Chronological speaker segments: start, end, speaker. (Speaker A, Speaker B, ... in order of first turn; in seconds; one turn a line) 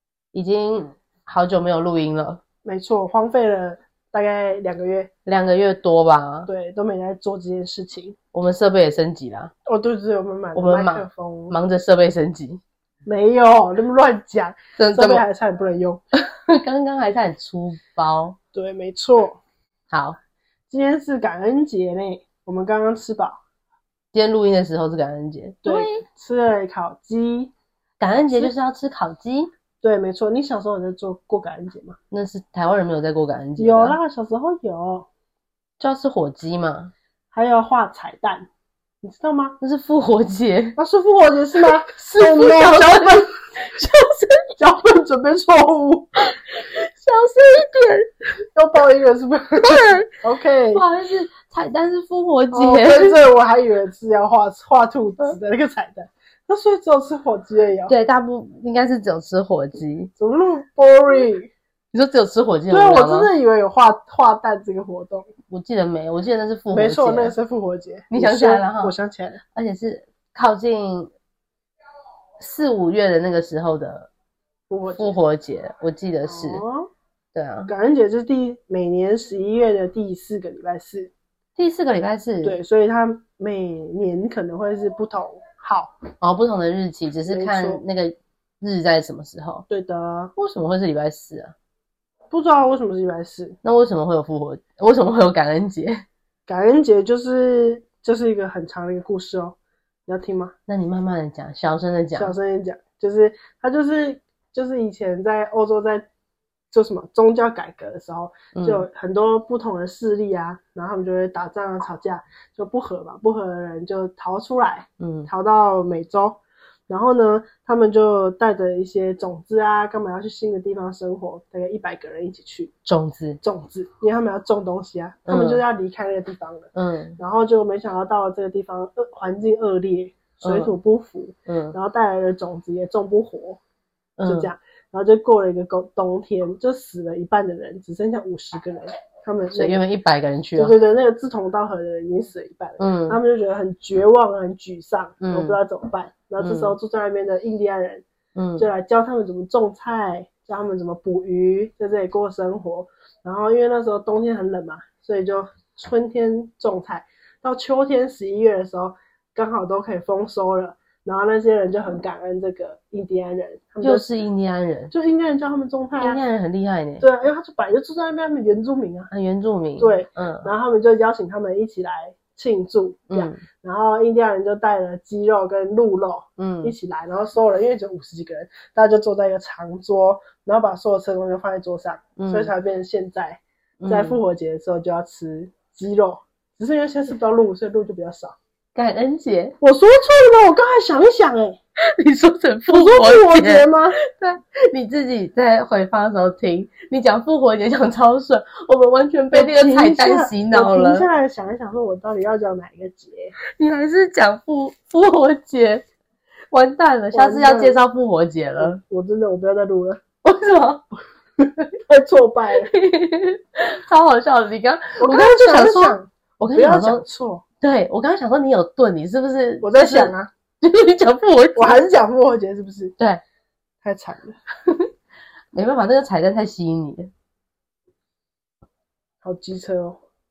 Speaker A: 0.3-2.4
Speaker B: 2.6-5.1
Speaker A: 5.2-6.5
Speaker B: 6.5-8.2
Speaker A: 8.3-9.5
Speaker B: 9.7-11.6
Speaker A: 10.5-12.6
Speaker B: 13.1-16.0
Speaker A: 14.8-15.2
Speaker A: 16.5-18.4
Speaker B: 18.5-19.4
Speaker A: 19.9-20.2
Speaker B: 20.7-23.4
Speaker A: 24.1-26.0
Speaker B: 25.6-27.5
Speaker A: 28.0-29.5
Speaker B: 28.2-28.5
Speaker B: 29.8-32.0
Speaker A: 32.1-34.0
Speaker B: 33.6-35.1
Speaker A: 35.8-36.9
Speaker B: 37.3-38.5
Speaker B: 39.0-39.6
Speaker A: 39.6-40.8
Speaker B: 40.8-43.4
Speaker A: 42.1-44.5
Speaker B: 44.5-46.2
Speaker A: 46.3-48.1
Speaker B: 48.5-50.8
Speaker A: 49.6-50.1
Speaker A: 50.7-53.2
Speaker B: 52.5-57.9
Speaker A: 57.9-60.1
Speaker B: 60.2-61.5
Speaker A: 61.9-63.3
Speaker B: 62.7-65.3
Speaker A: 65.5-67.3
Speaker B: 66.7-69.4
Speaker A: 68.1-68.9
Speaker A: 69.5-71.1
Speaker A: 72.4-74.1
Speaker B: 74.7-75.2
Speaker A: 75.0-76.6
Speaker B: 76.2-76.9
Speaker A: 77.3-77.7
Speaker B: 77.7-81.1
Speaker A: 81.5-82.6
Speaker B: 82.4-85.9
Speaker A: 86.2-89.7
Speaker B: 87.3-87.8
Speaker B: 89.7-90.3
Speaker A: 90.3-91.5
Speaker B: 92.3-93.6
Speaker A: 93.6-96.0
Speaker B: 96.5-100.5
Speaker A: 100.7-102.3
Speaker B: 102.1-106.0
Speaker B: 106.7-122.7
Speaker A: 108.5-108.8
Speaker A: 115.0-115.3
Speaker A: 122.8-123.4
Speaker B: 123.4-133.6
Speaker A: 125.3-125.6
Speaker A: 126.7-127.2
Speaker A: 130.4-130.7
Speaker A: 131.4-131.8
Speaker A: 134.2-134.5
Speaker B: 134.2-139.8
Speaker A: 139.5-140.8
Speaker B: 140.6-148.0
Speaker A: 142.8-143.2
Speaker A: 145.2-145.6
Speaker A: 146.4-146.8
Speaker A: 148.3-148.7
Speaker B: 148.6-164.1
Speaker A: 163.8-164.9
Speaker B: 164.9-166.2
Speaker A: 166.0-167.1
Speaker B: 167.0-169.1
Speaker A: 169.1-170.5
Speaker B: 169.8-188.3
Speaker A: 173.1-173.4
Speaker A: 176.4-176.7
Speaker A: 182.2-182.5
Speaker A: 183.8-184.2
Speaker A: 188.7-189.6
Speaker B: 189.6-191.6
Speaker A: 191.8-201.1
Speaker B: 192.7-194.0
Speaker B: 199.3-203.3
Speaker A: 203.6-205.8
Speaker A: 206.5-208.8
Speaker B: 207.1-207.8
Speaker B: 208.6-210.0
Speaker A: 210.2-210.8
Speaker B: 211.4-212.7
Speaker A: 212.7-217.0
Speaker B: 215.0-217.4
Speaker A: 217.6-221.8
Speaker B: 219.6-220.3
Speaker B: 221.6-222.9
Speaker B: 223.8-224.4
Speaker A: 225.5-227.1
Speaker B: 229.2-230.0